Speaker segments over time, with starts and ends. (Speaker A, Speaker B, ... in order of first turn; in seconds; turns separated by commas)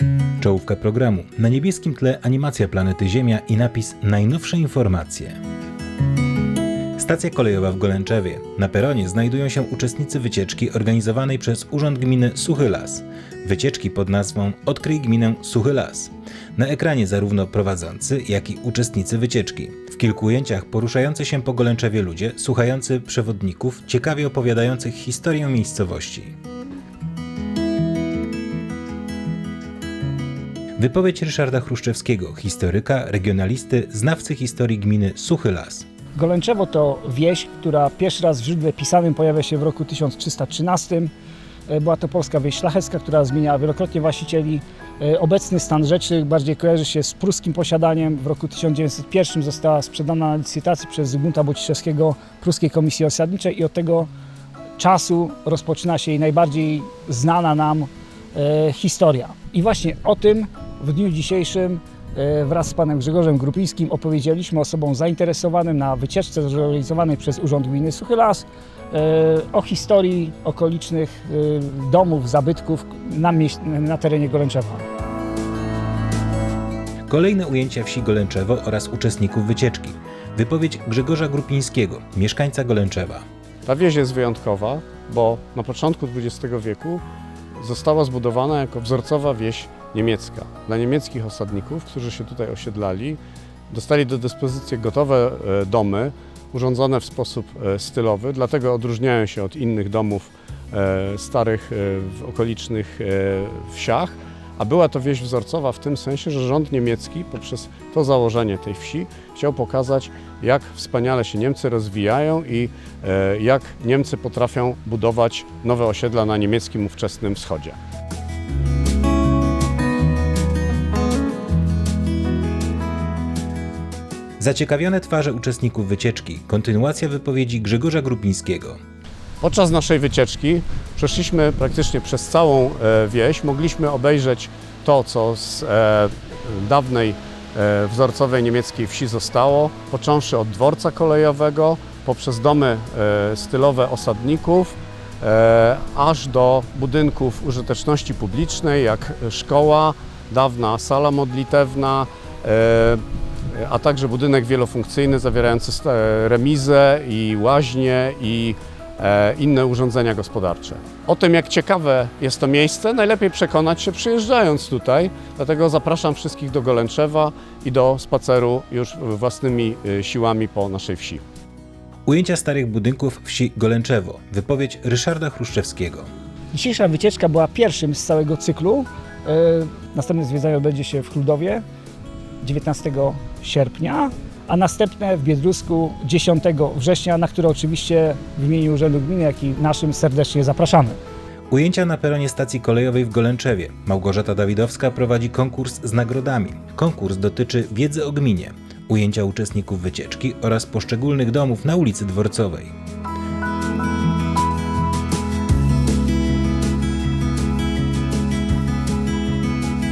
Speaker A: 0.4-5.4, Speaker A: 7.0-26.3, Speaker A: 30.8-35.9, Speaker B: 36.1-41.1, Speaker B: 41.7-54.1, Speaker B: 54.8-74.8, Speaker A: 77.1-83.2, Speaker C: 83.6-87.0, Speaker C: 87.5-93.2, Speaker C: 93.7-117.8, Speaker A: 124.4-128.8, Speaker C: 129.4-171.2, Speaker A: 172.1-176.1, Speaker B: 176.5-181.6, Speaker B: 182.4-191.0, Speaker A: 191.5-202.7